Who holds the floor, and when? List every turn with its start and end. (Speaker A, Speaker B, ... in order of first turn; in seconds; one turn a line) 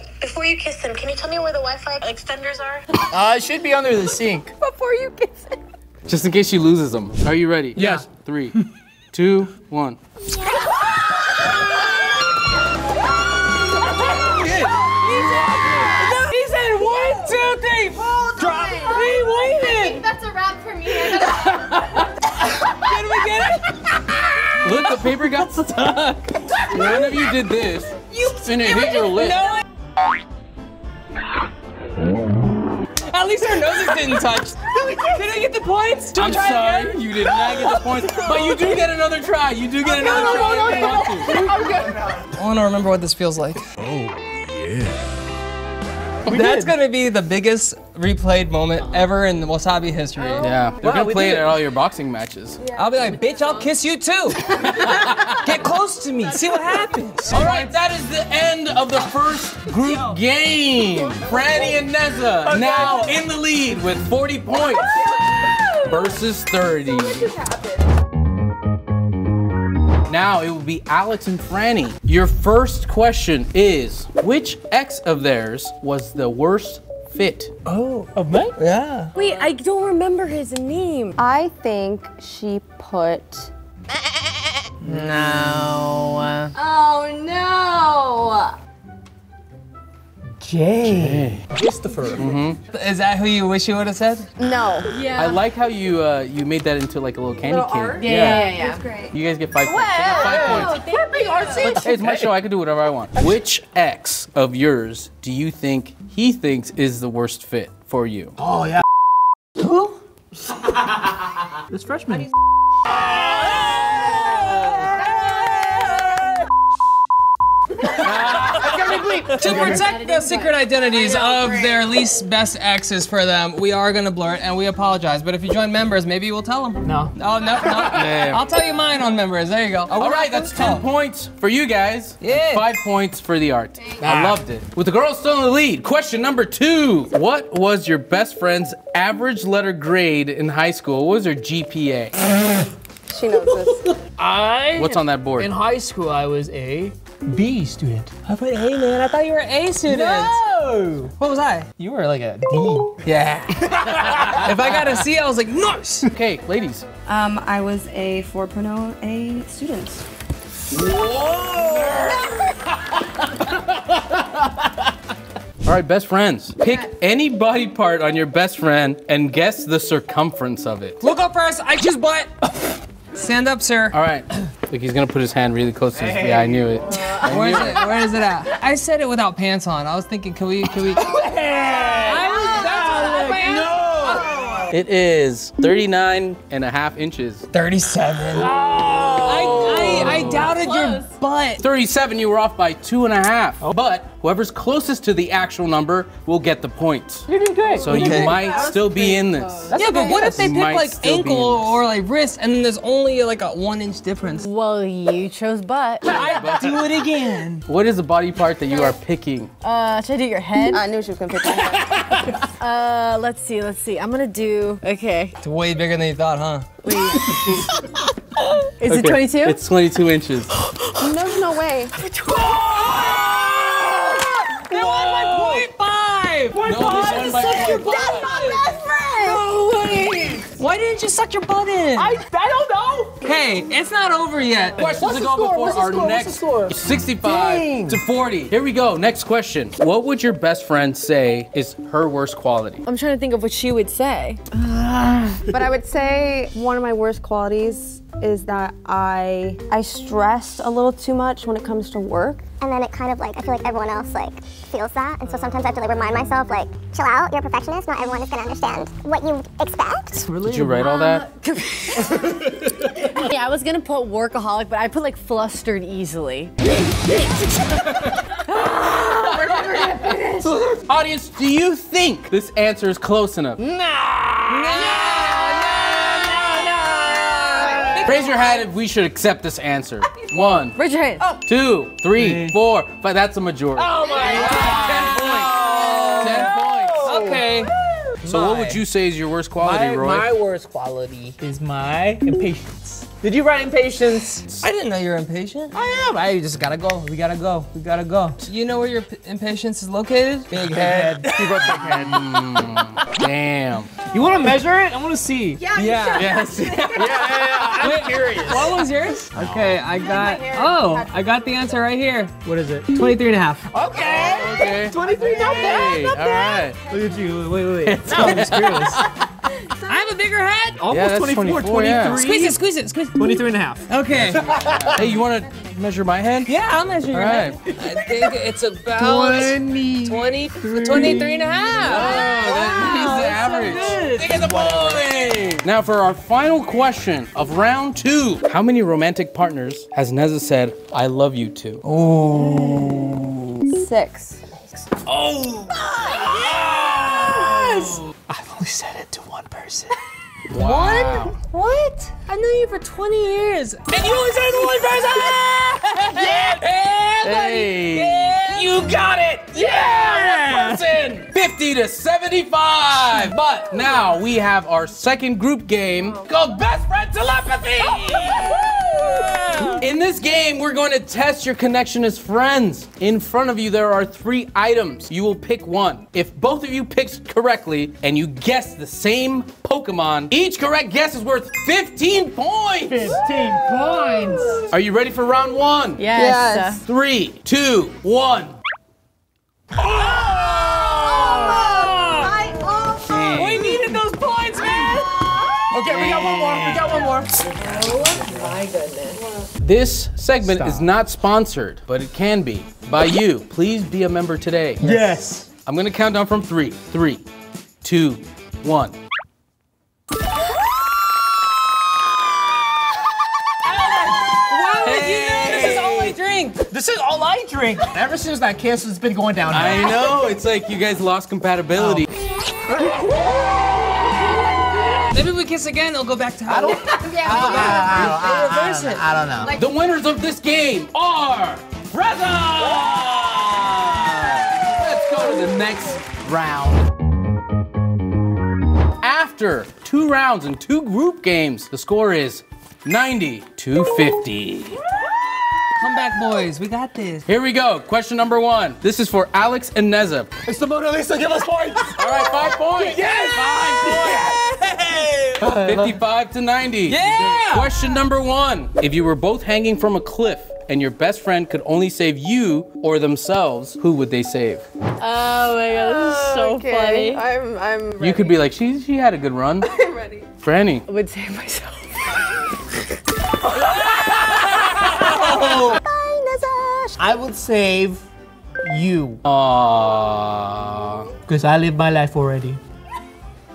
Speaker A: 0.2-2.9
Speaker B: 3.1-4.5
Speaker C: 4.7-5.5
Speaker D: 6.1-8.6
Speaker B: 7.8-8.6
Speaker D: 9.1-10.0
Speaker E: 14.2-15.5
Speaker D: 14.3-14.8
Speaker F: 14.9-20.1
Speaker E: 17.9-19.1
Speaker C: 18.9-22.0
Speaker F: 21.4-21.7
Speaker F: 22.7-23.8
Speaker D: 24.6-29.4
Speaker F: 26.7-27.1
Speaker C: 28.2-29.1
Speaker F: 28.7-29.6
Speaker F: 33.1-34.6
Speaker B: 34.7-35.4
Speaker F: 35.1-37.0
Speaker D: 36.1-41.4
Speaker B: 37.2-38.7
Speaker B: 39.9-42.3
Speaker E: 40.0-41.8
Speaker F: 42.4-43.9
Speaker F: 46.3-51.4
Speaker B: 46.3-46.7
Speaker D: 50.4-52.6
Speaker B: 50.8-51.2
Speaker F: 52.7-57.7
Speaker D: 54.6-55.3
Speaker D: 57.3-65.2
Speaker B: 62.5-63.2
Speaker D: 65.8-67.3
Speaker D: 70.1-77.5
Speaker F: 77.7-79.1
Speaker B: 78.1-78.6
Speaker C: 79.2-81.2
Speaker E: 81.2-83.5
Speaker B: 84.8-85.2
Speaker C: 84.8-86.5
Speaker E: 86.5-88.6
Speaker B: 90.4-92.4
Speaker D: 90.8-91.4
Speaker D: 92.2-92.6
Speaker F: 92.7-94.3
Speaker E: 94.4-94.9
Speaker C: 94.9-95.4
Speaker D: 95.2-98.5
Speaker E: 97.3-99.2
Speaker C: 98.0-98.8
Speaker D: 99.1-100.8
Speaker C: 99.7-101.9
Speaker B: 100.1-102.3
Speaker D: 101.6-108.4
Speaker B: 108.4-108.8
Speaker B: 111.7-112.3
Speaker E: 118.0-119.7
Speaker D: 118.0-118.8
Speaker B: 118.1-119.8
Speaker F: 119.3-130.8
Speaker C: 119.4-120.6
Speaker E: 121.2-121.8
Speaker B: 126.8-127.2
Speaker D: 127.7-128.4
Speaker D: 129.9-142.2
Speaker F: 132.2-132.7
Speaker B: 134.0-134.4
Speaker E: 143.1-143.9
Speaker B: 143.5-148.1
Speaker D: 144.7-145.5
Speaker F: 148.3-150.4
Speaker B: 149.8-151.1
Speaker F: 151.2-151.7
Speaker B: 151.8-153.0
Speaker F: 153.0-156.1
Speaker D: 154.1-154.8
Speaker D: 156.1-156.9
Speaker E: 157.1-160.1
Speaker D: 161.4-162.1
Speaker D: 165.6-171.0
Speaker F: 171.0-172.5
Speaker F: 173.1-174.0
Speaker D: 173.9-177.9
Speaker B: 175.9-176.8
Speaker F: 177.2-181.1
Speaker B: 181.0-184.6
Speaker F: 181.9-184.3
Speaker C: 182.7-183.3
Speaker D: 183.8-187.4
Speaker F: 187.5-188.5
Speaker B: 188.4-191.0
Speaker D: 189.2-190.6
Speaker F: 189.2-191.6
Speaker D: 191.6-201.8
Speaker B: 197.3-200.5
Speaker F: 197.8-198.5
Speaker C: 198.1-198.6
Speaker E: 198.4-198.7
Speaker F: 199.7-204.5
Speaker C: 204.4-206.1
Speaker D: 206.1-207.0
Speaker F: 206.1-207.7
Speaker D: 207.7-209.5
Speaker C: 209.6-210.8
Speaker E: 210.7-212.2
Speaker C: 212.6-215.3
Speaker F: 215.4-216.7
Speaker C: 216.8-217.6
Speaker C: 218.8-219.6
Speaker D: 218.9-220.6
Speaker E: 221.0-222.0
Speaker F: 222.2-228.4
Speaker B: 222.9-223.2
Speaker B: 224.7-225.7
Speaker B: 226.5-228.7
Speaker D: 226.6-228.3
Speaker E: 227.0-229.6
Speaker B: 230.1-230.4
Speaker F: 230.5-232.2
Speaker B: 232.0-233.2
Speaker F: 233.2-234.8
Speaker B: 234.8-238.0
Speaker D: 234.8-242.8
Speaker C: 242.8-245.4
Speaker E: 245.5-252.5
Speaker G: 252.6-260.3
Speaker C: 255.3-256.1
Speaker B: 260.3-260.7
Speaker D: 260.4-261.3
Speaker C: 260.8-267.2
Speaker D: 267.9-268.3
Speaker C: 268.5-268.9
Speaker D: 269.1-273.6
Speaker E: 269.2-270.4
Speaker B: 273.7-276.1
Speaker F: 274.5-278.3
Speaker B: 276.7-278.0
Speaker E: 277.8-278.4
Speaker D: 278.0-280.8
Speaker C: 280.7-281.3
Speaker D: 281.4-285.6
Speaker B: 282.2-282.6
Speaker B: 283.8-288.8
Speaker E: 284.1-284.6
Speaker F: 284.2-287.7
Speaker D: 286.1-287.1
Speaker D: 288.2-290.3
Speaker B: 289.6-294.5
Speaker F: 294.5-295.8
Speaker B: 295.7-298.4
Speaker F: 298.4-301.9
Speaker B: 300.6-302.3
Speaker D: 301.9-303.9
Speaker B: 304.0-305.7
Speaker E: 305.6-307.5
Speaker F: 305.7-306.3
Speaker D: 306.1-308.7
Speaker B: 306.9-308.8
Speaker F: 307.8-313.7
Speaker B: 309.3-309.7
Speaker E: 309.9-311.6
Speaker B: 312.4-313.0
Speaker B: 313.6-319.0
Speaker E: 314.0-314.7
Speaker D: 314.1-316.8
Speaker E: 315.5-315.9
Speaker D: 317.9-319.1
Speaker F: 318.1-319.0
Speaker F: 319.9-320.8
Speaker B: 320.8-322.6
Speaker D: 320.9-322.3
Speaker F: 322.1-323.3
Speaker B: 323.1-325.1
Speaker F: 323.9-324.5
Speaker D: 324.6-326.5
Speaker F: 326.5-334.9
Speaker D: 327.1-327.6
Speaker D: 329.0-341.8
Speaker B: 330.8-332.2
Speaker B: 332.9-333.3
Speaker B: 334.0-334.8
Speaker F: 341.8-343.6
Speaker E: 343.7-344.4
Speaker D: 345.1-345.7
Speaker F: 345.7-348.0
Speaker B: 346.6-347.5
Speaker B: 348.3-349.9
Speaker D: 350.5-351.4
Speaker F: 350.5-358.9
Speaker B: 354.2-355.4
Speaker B: 356.1-357.1
Speaker D: 357.2-368.7
Speaker F: 359.5-360.9
Speaker F: 363.0-363.3
Speaker F: 368.1-369.9
Speaker D: 369.8-383.2
Speaker B: 382.9-384.7
Speaker D: 384.7-386.0
Speaker C: 386.0-386.8
Speaker E: 386.1-386.8
Speaker D: 386.9-388.6
Speaker B: 389.8-392.3
Speaker E: 390.3-393.5
Speaker D: 393.1-393.7
Speaker F: 393.3-395.1
Speaker B: 395.7-397.7
Speaker D: 395.9-396.7
Speaker C: 397.6-399.2
Speaker D: 399.6-404.8
Speaker B: 400.4-400.9
Speaker B: 404.8-405.5
Speaker D: 405.6-407.2
Speaker D: 407.8-409.0
Speaker F: 413.8-416.6
Speaker D: 414.8-416.2
Speaker B: 416.6-420.2
Speaker D: 419.5-422.1
Speaker B: 421.7-422.1
Speaker E: 422.7-424.0
Speaker F: 425.1-429.0
Speaker E: 426.6-428.2
Speaker B: 427.2-429.6
Speaker E: 429.4-429.7
Speaker D: 429.6-436.9
Speaker D: 439.0-444.8
Speaker F: 445.8-447.3
Speaker D: 447.3-450.3
Speaker B: 450.4-454.3
Speaker D: 452.0-454.4
Speaker F: 452.9-455.5
Speaker B: 455.0-455.9
Speaker D: 455.4-464.6
Speaker F: 456.9-457.9
Speaker C: 465.0-467.2
Speaker E: 465.7-468.5
Speaker D: 468.0-469.7
Speaker E: 469.6-470.3
Speaker D: 470.4-470.9
Speaker C: 470.9-472.7
Speaker E: 474.1-477.0
Speaker B: 475.0-475.8
Speaker B: 477.0-478.1
Speaker B: 478.6-479.2
Speaker D: 479.2-481.1
Speaker B: 481.3-482.6